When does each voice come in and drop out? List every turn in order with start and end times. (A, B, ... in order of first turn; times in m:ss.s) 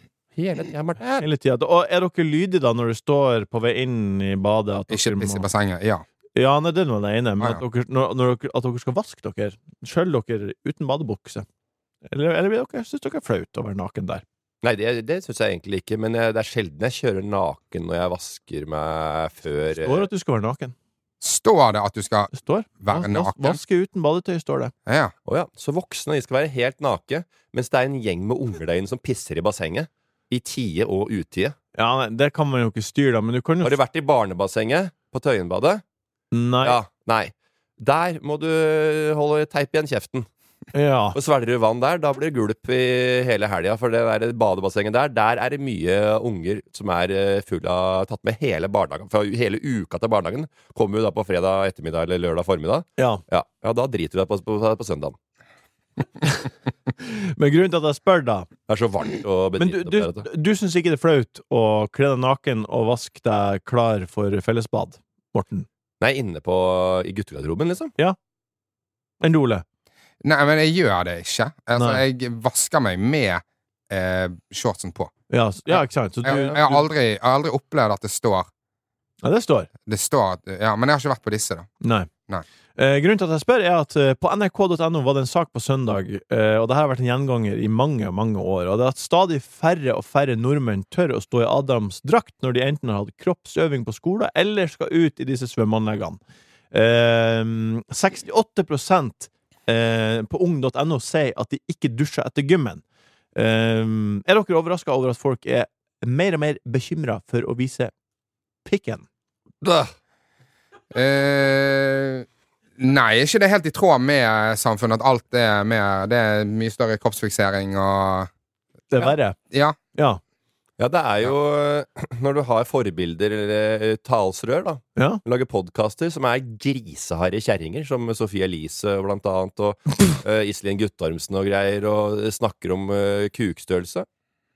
0:00.4-0:01.2 A
0:01.2-0:05.5 B
0:04.9-0:06.0 C
0:06.4-0:11.4 B
0:12.1-0:14.2 B
0:14.6-0:20.0 A
0:19.8-0:20.7 B
0:21.2-0:23.6 C
0:22.3-0:24.7 B
0:24.8-0:25.1 C
0:25.2-0:31.5 A
0:31.8-0:33.8 B
0:33.6-0:35.8 A
0:36.3-0:36.8 B
0:36.6-0:40.3 A
0:40.7-0:41.2 B
0:41.1-0:55.1 A
0:57.0-0:58.5 B
0:58.7-1:00.3 A
0:59.6-1:05.6 B
1:06.0-1:07.9 A
1:09.2-1:09.6 B
1:10.2-1:15.1 C
1:11.7-1:12.0 B
1:15.3-1:16.8 B
1:15.7-1:18.5 C
1:19.2-1:19.7 B
1:19.9-1:21.7 C
1:21.8-1:22.1 B
1:22.8-1:36.2 B
1:36.7-1:42.8 B
1:43.3-1:47.9 B
1:48.6-1:49.0 B
1:49.6-1:49.9 A
1:50.9-1:52.2 C
1:52.8-1:58.3 C
1:58.9-1:59.4 B
1:59.0-1:59.8 C
1:59.9-2:00.2 B
2:00.8-2:14.0 A
2:05.0-2:05.2 B